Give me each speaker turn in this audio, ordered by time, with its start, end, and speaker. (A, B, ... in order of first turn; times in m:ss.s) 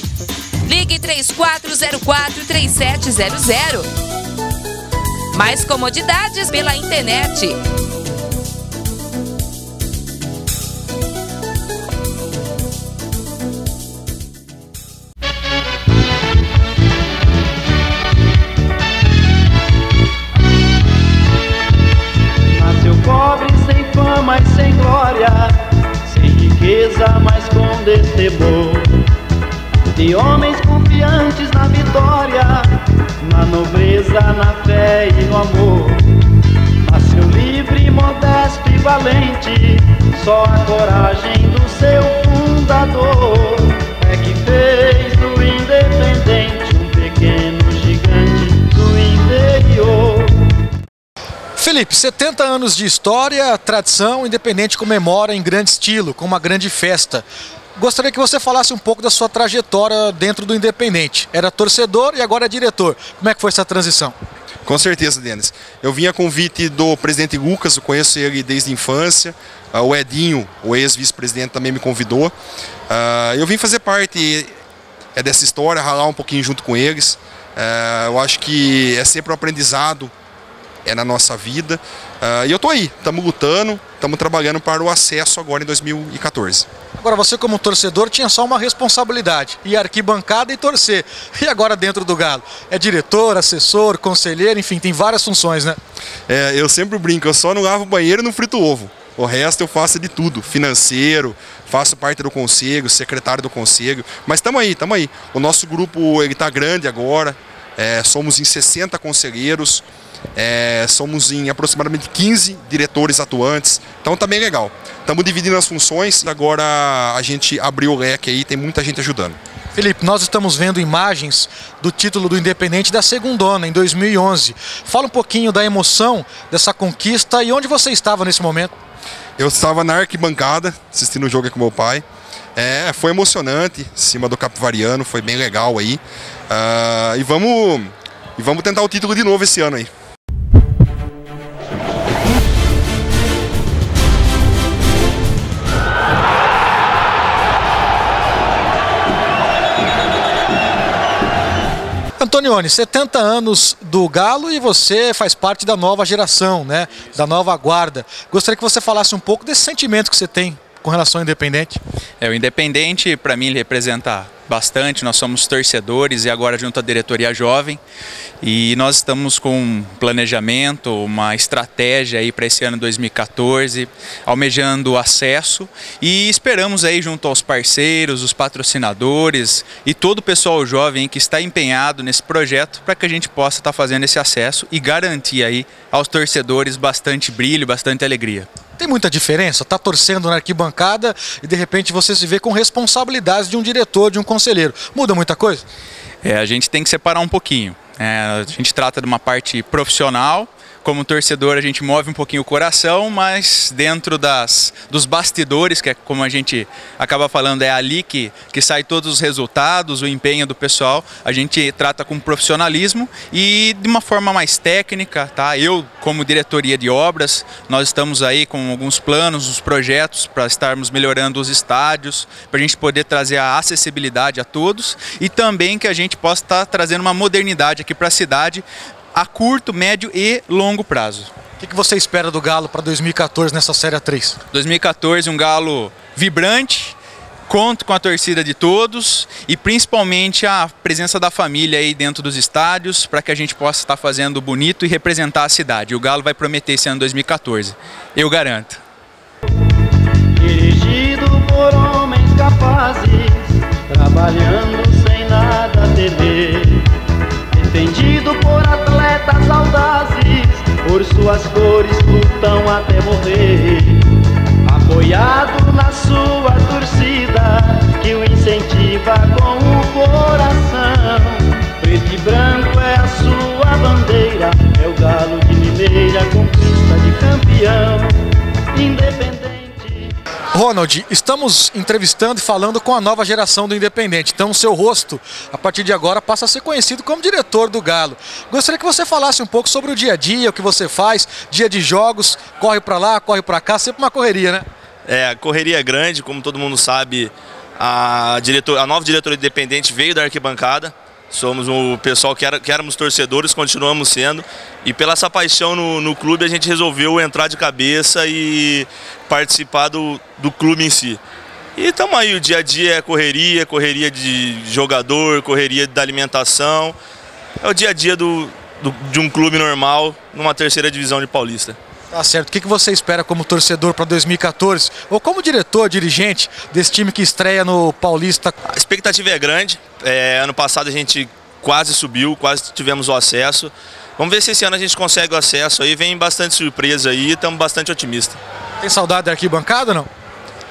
0:00.6-0:03.9 A
0:05.3-0:07.6 A
0:22.5-0:28.9 B
0:29.9-0:36.0 B
0:36.8-0:50.4 B
0:51.6-0:57.2 C
0:57.8-1:04.1 C
1:04.7-1:12.3 D
1:12.9-1:14.5 D
1:15.2-1:20.1 D
1:20.8-1:26.7 D
1:27.0-1:35.8 C
1:36.3-1:49.8 D
1:50.4-1:59.4 D
1:59.8-2:08.7 C
2:09.4-2:12.0 D
2:12.6-2:19.9 D
2:32.2-2:41.8 C
2:42.2-2:47.8 E
2:48.4-3:08.5 E
3:08.8-3:15.6 C
3:16.2-3:51.3 E
3:51.6-3:54.4 C
3:54.5-3:57.0 E
3:57.5-4:08.8 E
4:10.4-4:16.9 B
4:17.5-4:24.0 B
4:24.6-4:38.2 B
4:38.7-4:40.1 B
4:40.5-4:54.6 C
4:55.1-5:11.2 F
5:11.8-5:17.0 F
5:17.6-5:21.8 F
5:22.1-5:28.6 C
5:28.6-5:38.4 F
5:38.8-5:40.1 C